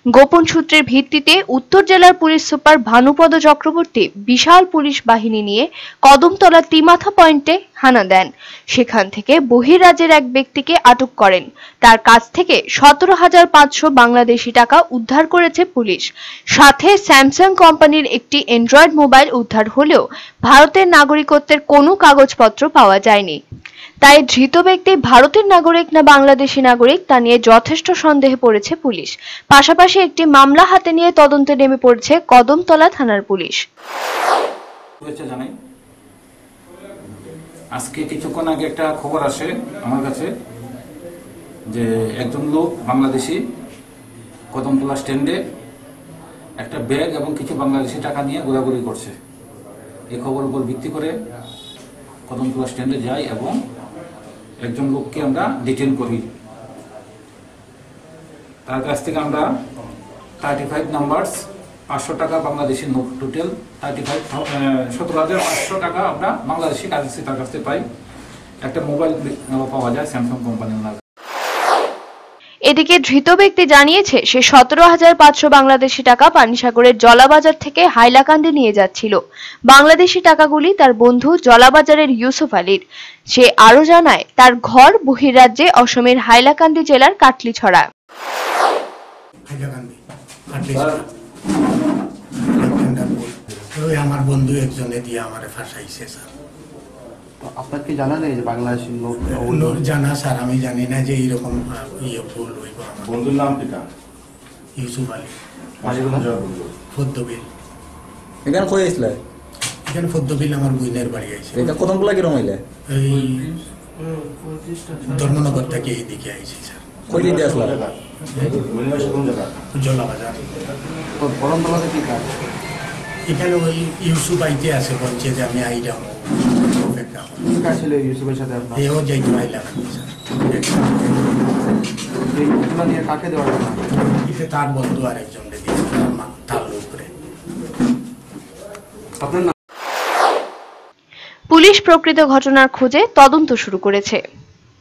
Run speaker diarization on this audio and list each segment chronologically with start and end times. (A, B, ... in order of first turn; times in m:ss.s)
0:00.1-0:23.4 A
0:24.0-0:33.6 A
0:35.0-0:35.5 B
0:37.7-0:40.3 B
0:41.7-0:43.4 B
0:44.5-0:45.4 B
0:46.6-0:49.1 B
0:50.1-0:51.1 B
0:52.3-0:53.5 B
0:54.6-0:56.2 B
0:58.6-0:59.5 B
1:00.4-1:07.8 B
1:08.6-1:11.0 B
1:12.7-1:19.2 A
1:19.7-1:27.9 A
1:29.5-1:31.0 C
1:32.6-1:36.3 C
1:37.4-1:39.8 D
1:39.3-1:43.6 C
1:43.1-1:43.8 E
1:44.8-1:45.3 C
1:45.8-1:46.3 D
1:45.8-1:46.7 E
1:46.9-1:47.4 C
1:48.4-1:49.2 F
1:49.8-1:51.7 C
1:51.5-1:52.6 F
1:52.9-1:53.6 C
1:55.0-1:57.1 C
1:57.1-1:57.8 F
1:57.1-1:58.0 E
1:58.3-1:58.6 C
1:58.5-1:59.5 E
1:59.7-2:00.6 C
2:01.1-2:02.4 D
2:03.3-2:07.5 C
2:07.4-2:08.8 D
2:08.7-2:11.2 C
2:12.3-2:13.9 D
2:14.2-2:17.1 C
2:19.2-2:19.5 D
2:21.5-2:24.2 A